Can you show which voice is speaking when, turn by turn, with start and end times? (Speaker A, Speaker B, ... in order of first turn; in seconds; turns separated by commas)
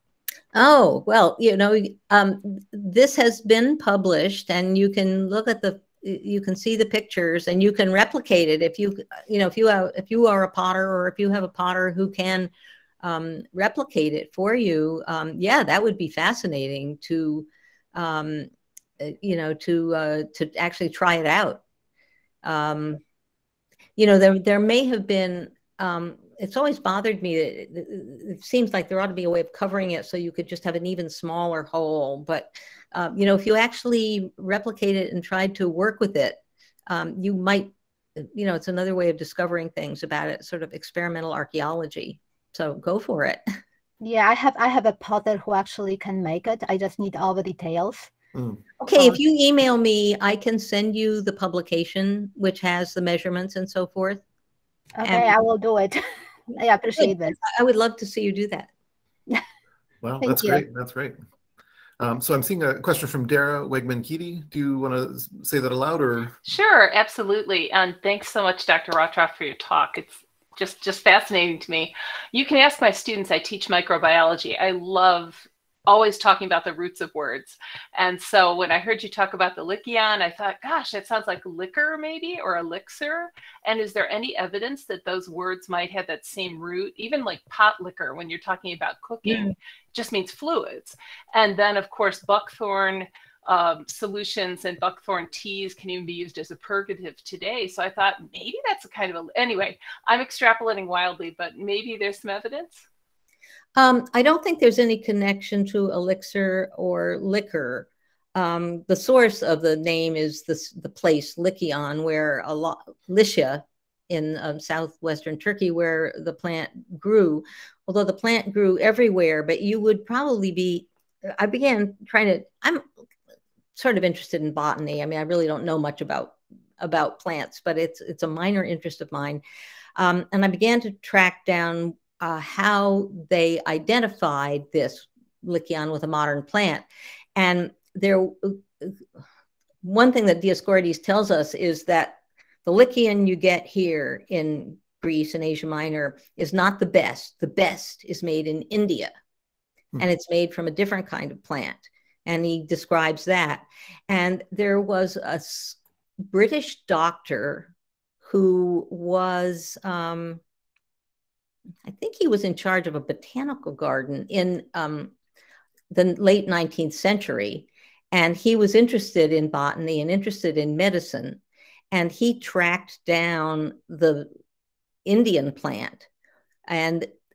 Speaker A: 0.5-12.5, Speaker A: 13.0-18.5, Speaker A: 19.0-21.6, Speaker A: 22.4-23.0, Speaker A: 24.0-43.4, Speaker B: 44.0-48.1, Speaker C: 48.3-48.6, Speaker A: 48.8-54.2, Speaker B: 55.0-56.0, Speaker A: 55.0-55.3, Speaker B: 56.5-57.4, Speaker A: 57.0-58.7, Speaker C: 60.0-61.1, Speaker B: 60.2-60.6, Speaker C: 62.0-66.4, Speaker D: 66.5-102.8, Speaker A: 103.8-122.8, Speaker A: 123.7-129.4, Speaker A: 129.9-138.9, Speaker A: 139.8-149.1, Speaker A: 150.0-155.8, Speaker A: 156.3-157.7, Speaker A: 158.2-160.4, Speaker A: 161.8-165.1, Speaker A: 165.9-171.4, Speaker A: 171.9-174.3, Speaker A: 175.0-176.1, Speaker A: 176.7-177.1